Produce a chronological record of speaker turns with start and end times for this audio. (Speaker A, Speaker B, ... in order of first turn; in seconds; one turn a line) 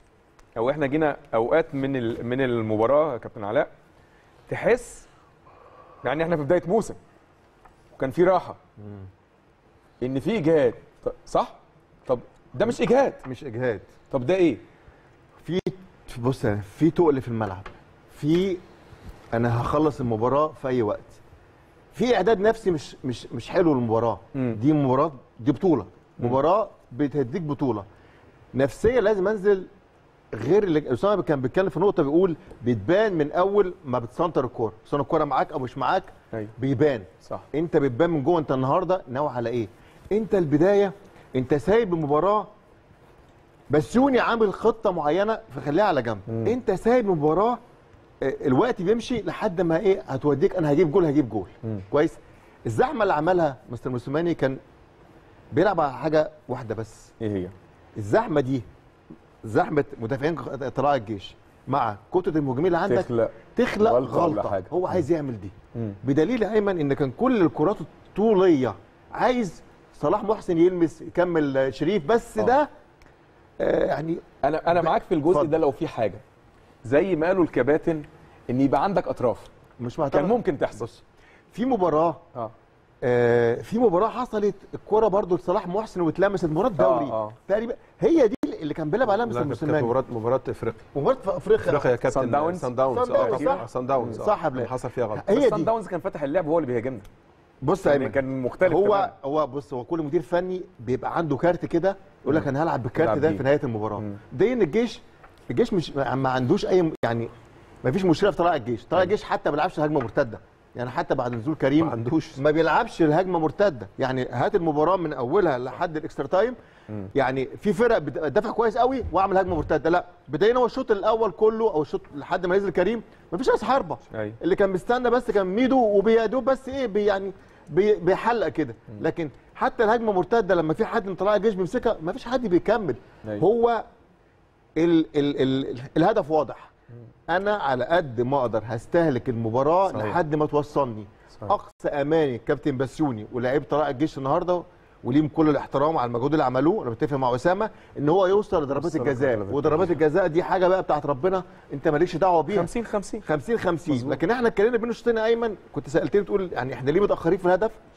Speaker A: 0.6-3.7
Speaker A: 4.5-5.0
Speaker A: 6.0-7.0
Speaker A: 8.0-8.6
Speaker B: 8.8-9.1
Speaker A: 10.0-13.2
Speaker B: 13.2-13.9
Speaker A: 14.1-14.6
Speaker B: 15.4-18.6
Speaker B: 19.3-21.2
Speaker B: 21.9-27.9
Speaker B: 28.5-29.7
Speaker B: 30.3-42.5
Speaker B: 43.7-47.6
Speaker A: 46.3-46.5
Speaker B: 48.2-54.6
Speaker B: 55.5-57.1
Speaker A: 57.2-57.5
Speaker B: 58.0-58.6
Speaker B: 59.4-72.7
Speaker A: 62.9-64.7
Speaker B: 73.6-75.6
Speaker A: 74.4-76.2
Speaker A: 76.8-79.5
Speaker B: 79.8-82.2
Speaker A: 80.1-80.8
Speaker B: 83.0-90.0
Speaker A: 86.8-87.4
Speaker C: 89.2-90.8
Speaker B: 90.9-92.2
Speaker C: 91.7-95.2
Speaker A: 92.1-94.3
Speaker B: 92.8-95.7
Speaker A: 95.2-97.1
Speaker B: 97.6-107.3
Speaker A: 97.8-99.1
Speaker A: 103.0-103.4
Speaker B: 107.8-116.5
Speaker C: 111.9-112.4
Speaker B: 117.1-133.8
Speaker A: 124.1-124.4
Speaker B: 134.8-136.7
Speaker B: 137.3-152.7
Speaker A: 139.9-140.2
Speaker A: 148.7-150.0
Speaker A: 152.5-153.2
Speaker B: 153.2-157.8
Speaker A: 153.9-154.2